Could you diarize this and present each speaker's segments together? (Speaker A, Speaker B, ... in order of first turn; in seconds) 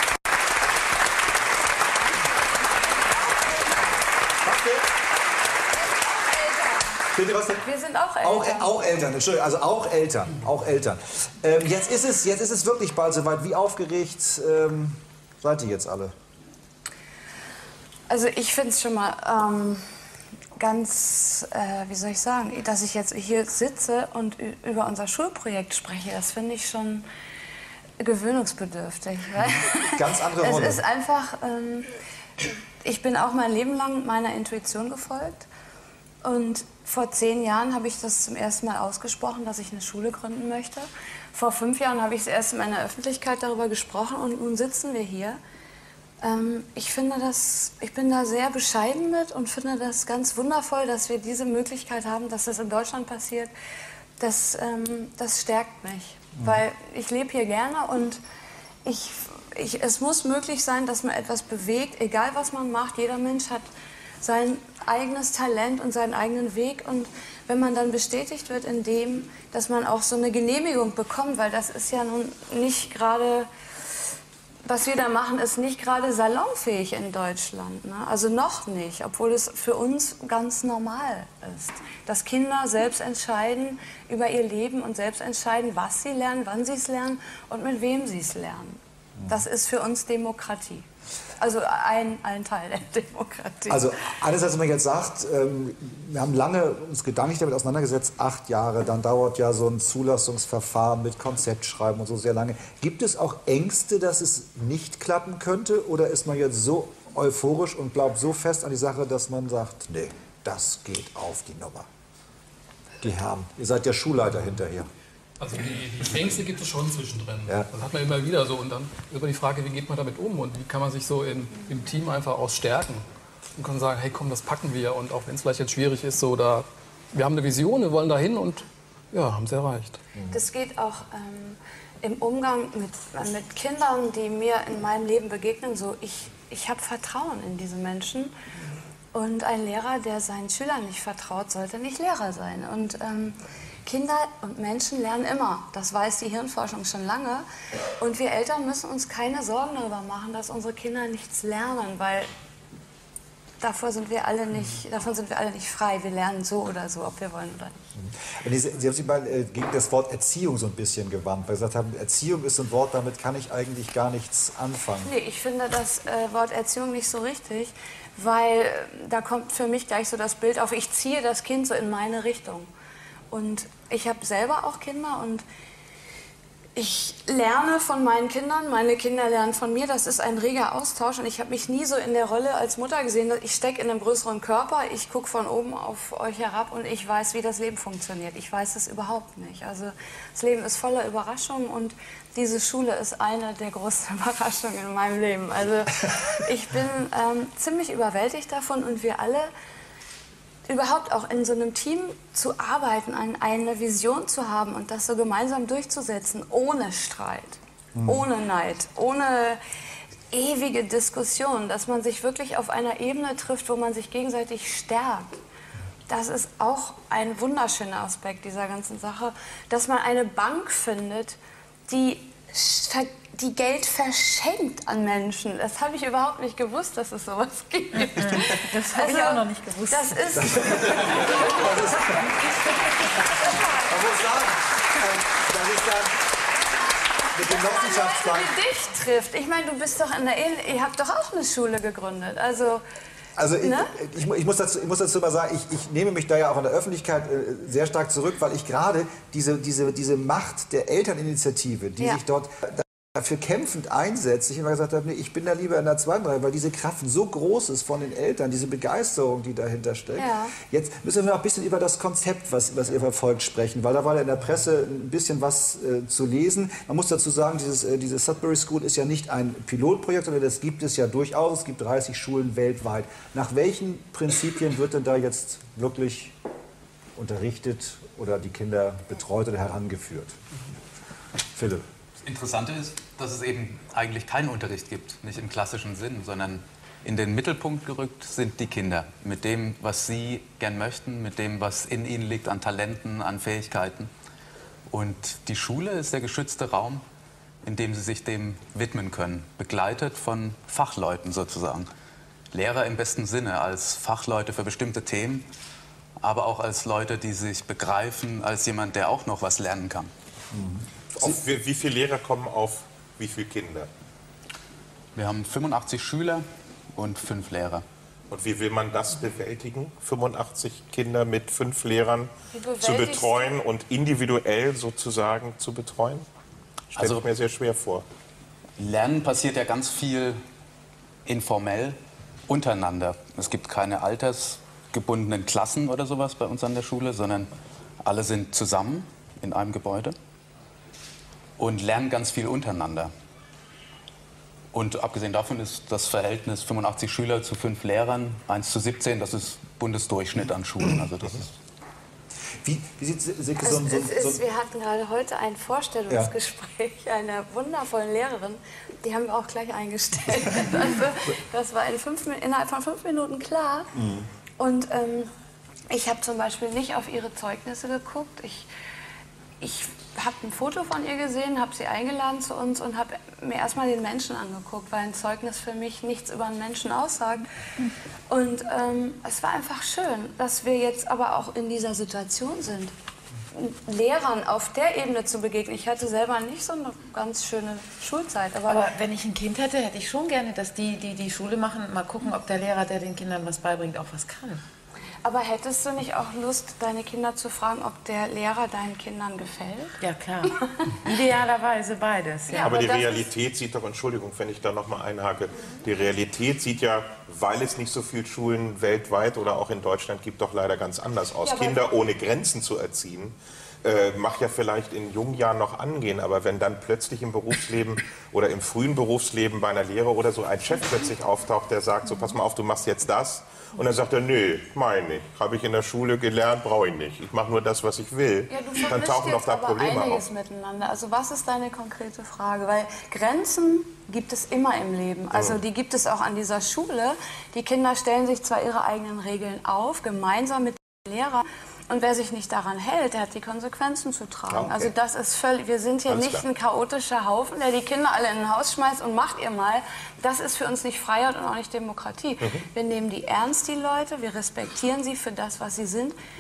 Speaker A: 4.4-4.9, 7.1-7.7, 8.2-16.1, 29.8-30.8, 93.7-111.9, 113.0-114.9, 158.0-165.1, 208.0-208.2, 230.4-232.3, 233.8-236.2, 237.3-238.5, 243.4-276.3, 277.2-280.4, 281.5-281.9, 310.5-310.9, 352.6-354.4
Speaker B: 5.9-7.0, 7.6-8.7, 18.1-19.8, 20.6-27.1, 28.0-31.9, 32.8-35.5, 36.2-45.4, 46.2-53.5, 54.2-58.2, 58.9-63.6, 64.2-73.5, 74.7-90.9, 91.4-93.9, 130.3-138.3, 139.1-147.4, 148.0-152.3, 153.6-157.8, 165.0-172.7, 173.3-175.4, 176.8-199.5, 200.7-209.6, 210.3-215.4, 216.1-231.1, 237.5-242.8, 243.6-243.9, 260.2-260.6, 322.5-323.6, 353.6-363.9, 364.6-365.3, 365.9-368.7, 369.6-377.4, 378.3-382.9, 383.5-388.9, 395.2-400.0, 402.5-403.2, 411.4-411.8, 428.5-456.2
Speaker C: 115.4-123.0, 123.6-130.0
Speaker D: 228.2-230.1, 388.7-394.6, 400.0-402.7
Speaker E: 282.2-294.1, 294.9-297.0, 297.6-301.9, 302.5-305.4, 306.2-310.1, 315.1-317.8, 327.0-327.2, 328.8-330.4, 331.2-337.5, 338.0-340.1, 341.6-343.1, 344.7-351.5
Speaker F: 311.1-313.9, 318.3-326.3, 326.9-328.1, 402.6-430.2, 444.5-444.9, 446.1-446.4